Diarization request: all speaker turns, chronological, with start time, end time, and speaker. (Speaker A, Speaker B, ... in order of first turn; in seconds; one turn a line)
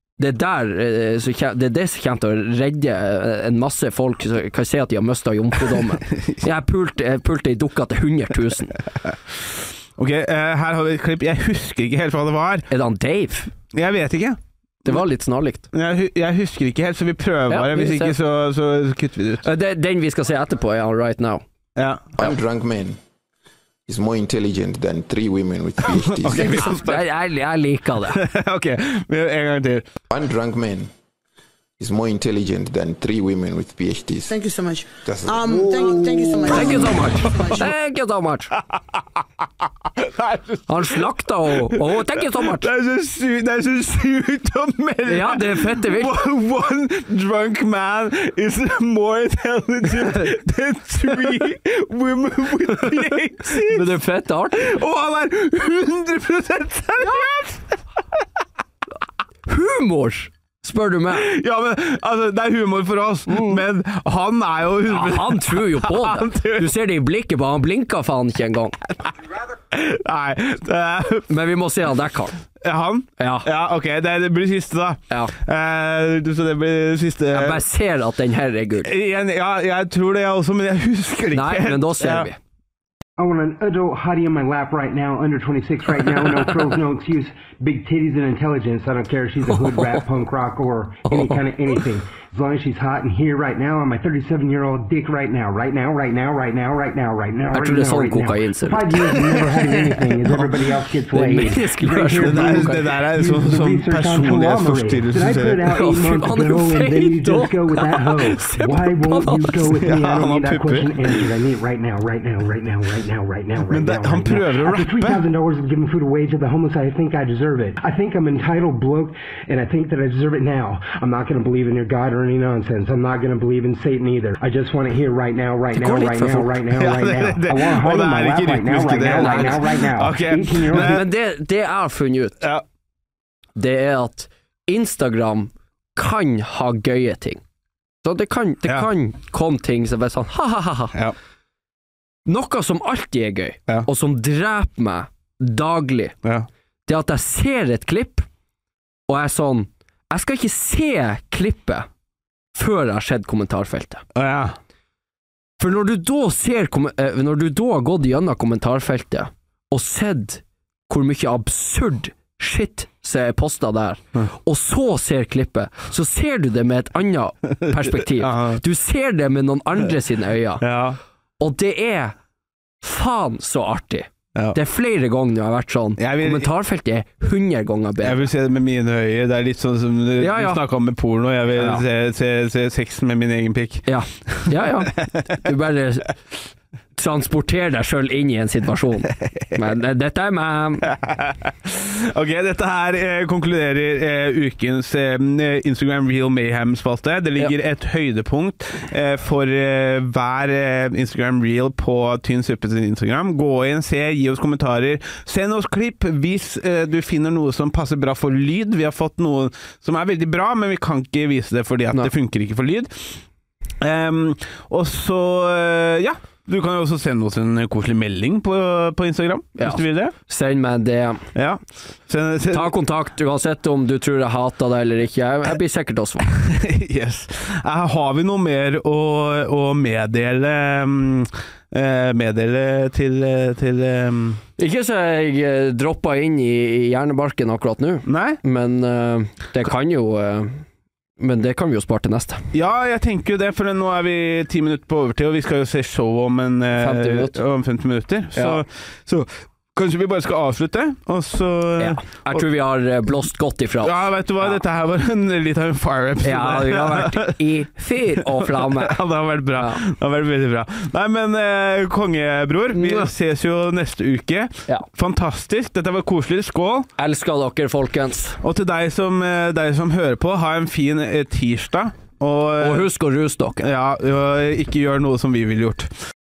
Speaker A: 0.2-8.8
Speaker B: 9.0-12.7
Speaker A: 12.7-13.5
Speaker B: 13.7-15.1
Speaker A: 14.8-15.7
Speaker B: 15.7-19.4
Speaker A: 17.5-18.1
Speaker A: 19.4-21.4
Speaker B: 21.8-22.3
Speaker C: 22.2-23.0
Speaker C: 23.9-26.7
Speaker B: 26.0-27.1
Speaker A: 26.4-28.2
Speaker B: 28.1-29.9
Speaker C: 30.1-30.9
Speaker C: 31.8-34.4
Speaker D: 34.2-37.6
Speaker C: 35.0-37.0
Speaker A: 36.5-38.5
Speaker B: 37.5-37.7
Speaker B: 38.7-39.0
Speaker B: 40.0-54.0
Speaker A: 40.7-42.7
Speaker A: 45.0-46.2
Speaker A: 52.9-54.7
Speaker B: 54.5-57.8
Speaker A: 59.5-61.3
Speaker B: 61.1-66.7
Speaker A: 63.3-63.6
Speaker A: 64.9-68.8
Speaker B: 69.4-71.3
Speaker A: 71.3-72.4
Speaker B: 72.6-77.6
Speaker A: 73.2-73.5
Speaker A: 77.3-78.9
Speaker B: 78.8-82.3
Speaker A: 81.3-82.4
Speaker E: 83.2-131.1
Speaker A: 89.6-90.0
Speaker A: 91.1-91.4
Speaker A: 97.5-99.7
Speaker A: 101.1-103.0
Speaker B: 102.0-105.7
Speaker A: 105.7-109.9
Speaker B: 109.8-111.1
Speaker B: 113.7-115.2
Speaker A: 125.7-126.6
Speaker B: 126.8-131.0
Speaker A: 129.2-129.7
Speaker A: 130.8-132.4
Speaker A: 133.6-137.4
Speaker A: 138.0-140.9
Speaker A: 142.2-146.1
Speaker A: 146.9-148.3
Speaker A: 149.1-151.9
Speaker A: 152.5-154.0
Speaker B: 154.1-154.6
Speaker A: 155.6-170.6
Speaker B: 167.7-168.6
Speaker B: 170.6-171.0
Speaker A: 171.4-172.1
Speaker A: 172.8-178.2
Speaker B: 176.0-176.5
Speaker B: 178.0-185.5
Speaker A: 180.2-180.6
Speaker A: 181.6-181.8
Speaker A: 183.9-186.1
Speaker A: 186.9-190.9
Speaker B: 189.2-189.5
Speaker B: 190.8-213.2
Speaker B: 213.8-220.1
Speaker A: 219.6-221.3
Speaker B: 221.3-222.7
Speaker A: 222.5-226.3
Speaker B: 226.3-234.4
Speaker A: 234.6-240.6
Speaker B: 238.1-238.4
Speaker A: 241.2-242.4
Speaker B: 242.5-252.4
Speaker A: 246.8-247.4
Speaker A: 248.3-248.6
Speaker A: 251.8-254.6
Speaker B: 253.8-257.4
Speaker A: 256.2-259.0
Speaker B: 258.2-266.9
Speaker A: 259.6-259.8
Speaker A: 262.7-263.1
Speaker A: 267.0-268.4
Speaker B: 268.4-272.9
Speaker A: 272.6-273.6
Speaker B: 273.6-275.9